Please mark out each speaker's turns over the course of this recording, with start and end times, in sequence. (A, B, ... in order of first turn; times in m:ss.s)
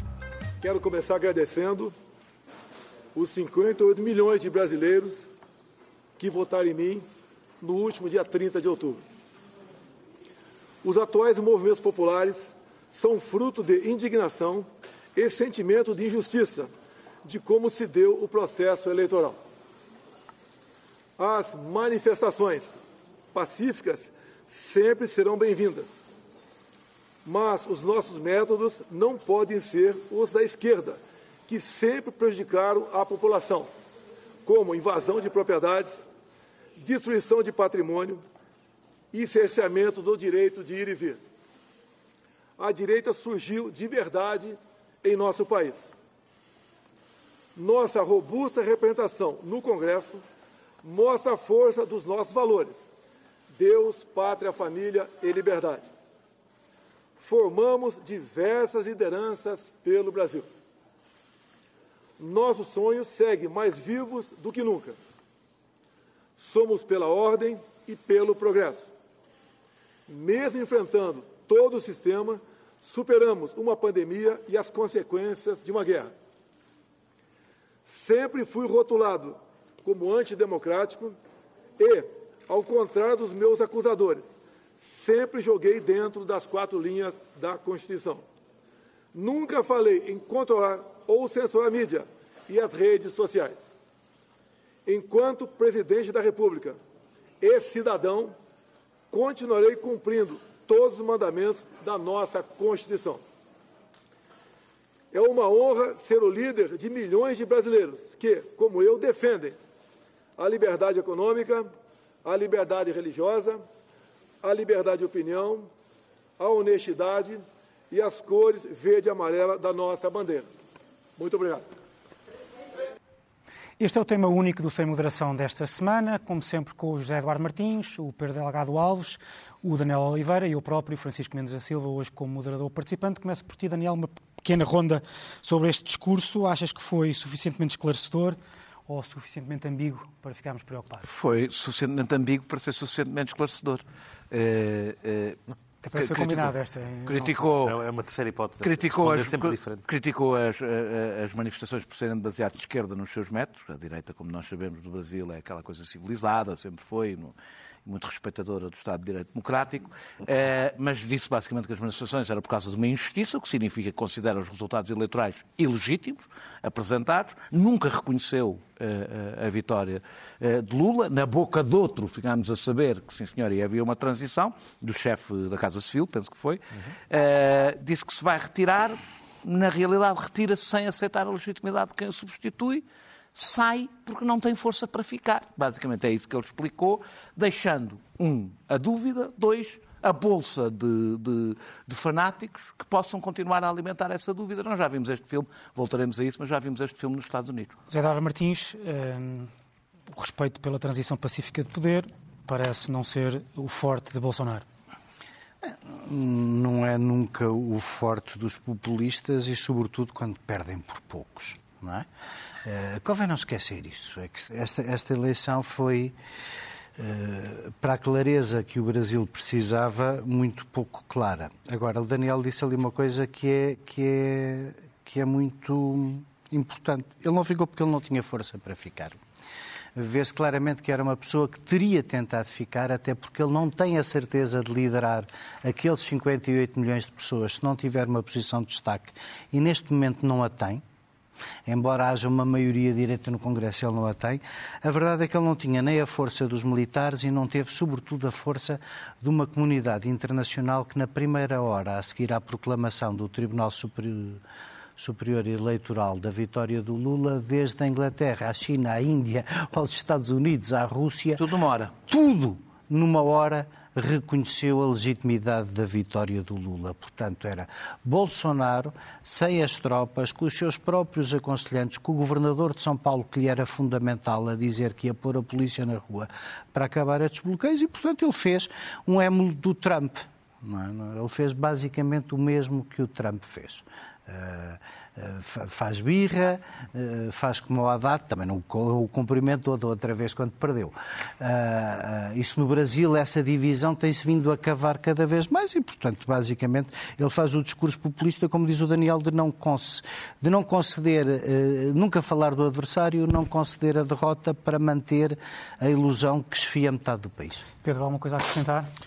0:00.6-0:01.9 A
0:03.1-0:05.3 A
0:06.2-0:07.0 A
0:07.6-0:09.0 A
0:10.8-0:16.7 A
0:17.2-0:19.4 A
0:21.2-0:22.8 A
0:23.3-0:26.0 A
0:27.2-0:33.7 A
0:34.4-0:36.0 A
0:36.8-0:38.2 A
0:39.1-0:41.2 A
0:42.6-0:45.9 A
0:47.6-0:50.2 A
0:50.8-0:52.8 A
0:53.5-0:55.9 A
0:57.2-1:00.5 A
1:02.2-1:05.0 A
1:06.4-1:08.9 A
1:10.1-1:16.1 A
1:17.8-1:21.2 A
1:21.8-1:28.2 A
1:29.1-1:33.6 A
1:34.9-1:36.8 A
1:37.4-1:38.3 A
1:39.1-1:43.2 A
1:45.1-1:49.6 A
1:50.4-1:51.7 A
1:52.2-1:53.6 A
1:54.4-1:55.7 A
1:56.4-2:00.5 A
2:01.2-2:01.6 A
2:03.8-2:21.1 B
2:21.0-2:25.4 C
2:25.8-2:27.4 B
2:25.9-2:27.8 C
2:27.6-2:29.9 D
2:28.6-3:17.8 C
3:17.9-3:19.5 B
3:20.1-3:24.6 B
3:25.6-3:32.1 E
3:32.6-3:36.2 E
3:37.0-3:49.2 E
3:49.9-4:00.8 E
4:01.7-4:14.4 E
4:15.0-4:21.5 E
4:21.4-4:21.9 C
4:22.0-5:07.7 E
5:07.8-5:08.9 B